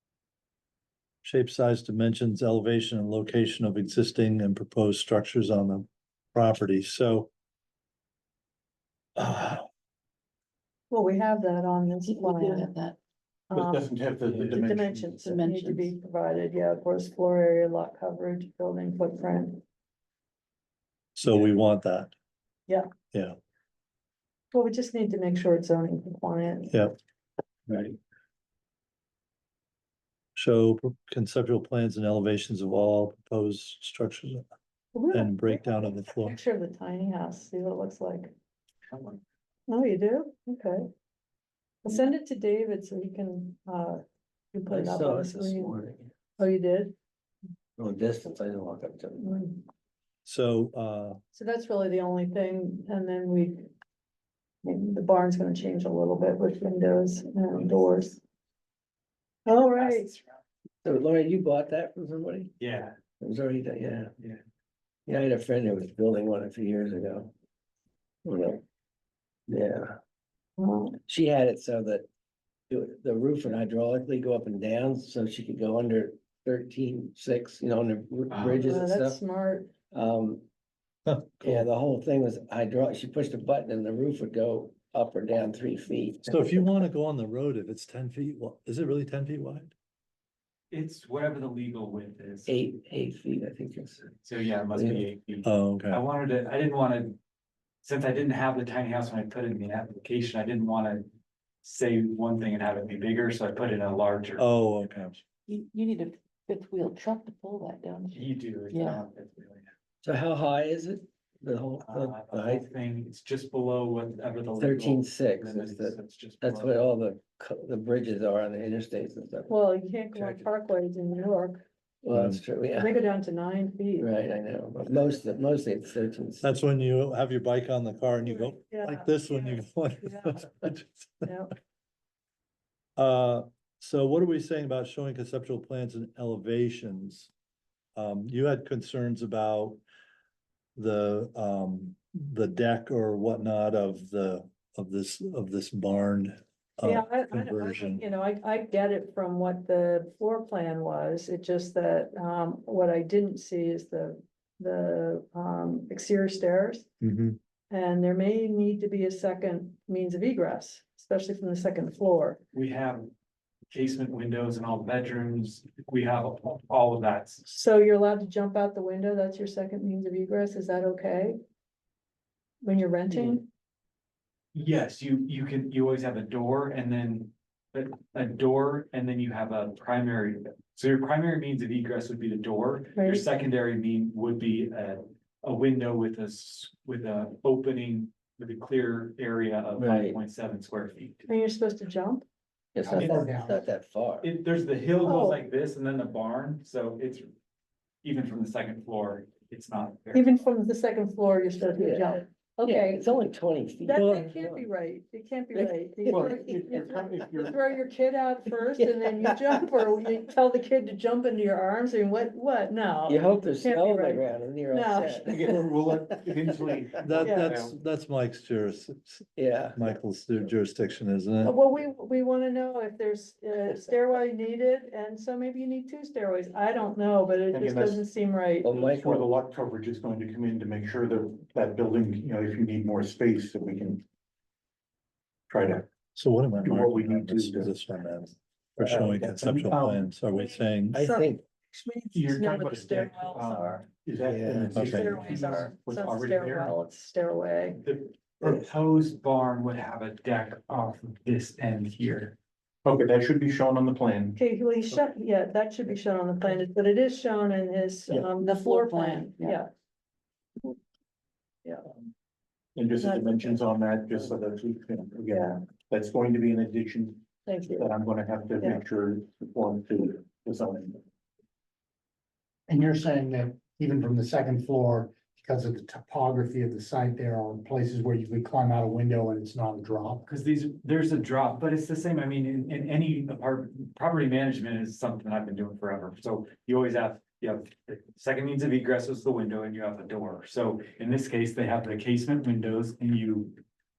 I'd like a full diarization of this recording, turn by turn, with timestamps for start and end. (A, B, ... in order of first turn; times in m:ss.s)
0:01.2-0:07.3 A
0:09.2-0:09.7 A
0:10.9-0:12.8 B
0:12.1-0:13.0 C
0:13.5-0:13.9 B
0:13.5-0:15.3 D
0:14.4-0:19.6 B
0:15.3-0:15.9 C
0:21.2-0:22.1 A
0:23.1-0:23.4 A
0:24.5-0:26.8 B
0:30.4-0:34.5 A
0:34.9-0:38.3 B
0:35.1-0:36.4 A
0:38.9-0:39.2 E
0:39.7-0:40.9 B
0:41.8-0:45.8 B
0:44.7-0:46.1 F
0:46.4-0:47.0 B
0:47.8-0:49.3 F
0:49.2-0:49.6 B
0:50.2-0:51.2 A
0:51.3-0:53.7 B
0:54.6-0:58.2 B
0:59.5-1:00.1 B
0:59.8-1:00.4 E
1:00.8-1:02.5 F
1:02.6-1:03.0 E
1:03.2-1:04.1 F
1:05.1-1:07.3 F
1:08.2-1:08.6 F
1:09.5-1:10.0 F
1:10.6-1:11.0 B
1:11.1-1:12.1 F
1:12.7-1:19.2 F
1:18.3-1:18.6 E
1:18.6-1:19.7 B
1:19.9-1:20.4 F
1:21.1-1:21.7 A
1:21.4-1:26.7 F
1:26.3-1:29.7 A
1:30.7-1:32.5 E
1:32.5-1:34.1 F
1:34.2-1:37.2 E
1:34.7-1:35.1 F
1:35.4-1:36.0 A
1:37.8-1:41.1 E
1:41.6-1:44.4 E
1:44.4-1:45.2 A
1:45.5-1:49.0 C
1:48.1-1:49.7 E
1:50.0-1:52.7 F
1:51.8-1:56.8 E
1:54.6-1:59.5 F
1:59.5-2:01.7 B
2:00.2-2:00.5 F
2:02.0-2:02.9 F
2:02.1-2:02.4 A
2:02.8-2:04.1 B
2:04.0-2:06.5 F
2:06.4-2:11.3 A
2:08.2-2:10.4 B
2:11.2-2:11.5 B
2:13.0-2:17.3 A
2:18.0-2:19.8 A
2:20.8-2:28.0 A
2:26.9-2:36.9 B
2:37.0-2:37.4 A
2:37.7-2:42.4 B
2:42.5-2:43.1 E
2:43.7-2:47.4 E
2:47.4-2:51.4 B
2:52.6-2:53.5 B
2:54.5-3:11.3 E
3:03.0-3:03.3 B
3:09.8-3:10.2 F
3:11.3-3:12.3 B
3:12.8-3:14.3 F
3:12.8-3:13.7 G
3:13.0-3:13.3 E
3:14.2-3:17.3 E
3:15.0-3:15.4 B
3:18.0-3:20.2 E
3:20.1-3:23.1 B
3:21.8-3:24.6 F
3:23.8-3:35.2 B
3:23.9-3:24.3 A
3:25.5-3:26.4 F
3:26.0-3:27.6 D
3:28.8-3:29.6 F
3:33.1-3:35.7 F
3:35.2-3:37.8 D
3:37.0-3:41.6 A
3:37.2-3:37.5 B
3:39.4-3:40.0 F
3:41.4-3:48.7 B
3:47.5-3:48.1 D
3:48.6-3:49.3 F
3:48.7-3:54.0 D
3:55.5-3:55.9 D
3:56.2-4:01.1 A
3:56.6-3:57.7 D
3:58.8-4:00.1 D
4:00.9-4:01.4 F
4:01.0-4:03.8 B
4:02.1-4:06.8 D
4:04.2-4:04.9 F
4:04.5-4:05.3 A
4:04.9-4:07.8 B
4:07.8-4:12.4 E
4:12.8-4:14.4 D
4:14.4-4:19.7 B
4:18.3-4:19.6 C
4:21.6-4:21.9 B
4:22.8-4:31.0 D
4:23.0-4:23.5 B
4:25.3-4:25.6 B
4:27.4-4:27.9 B
4:32.7-4:40.3 G
4:40.3-4:53.6 E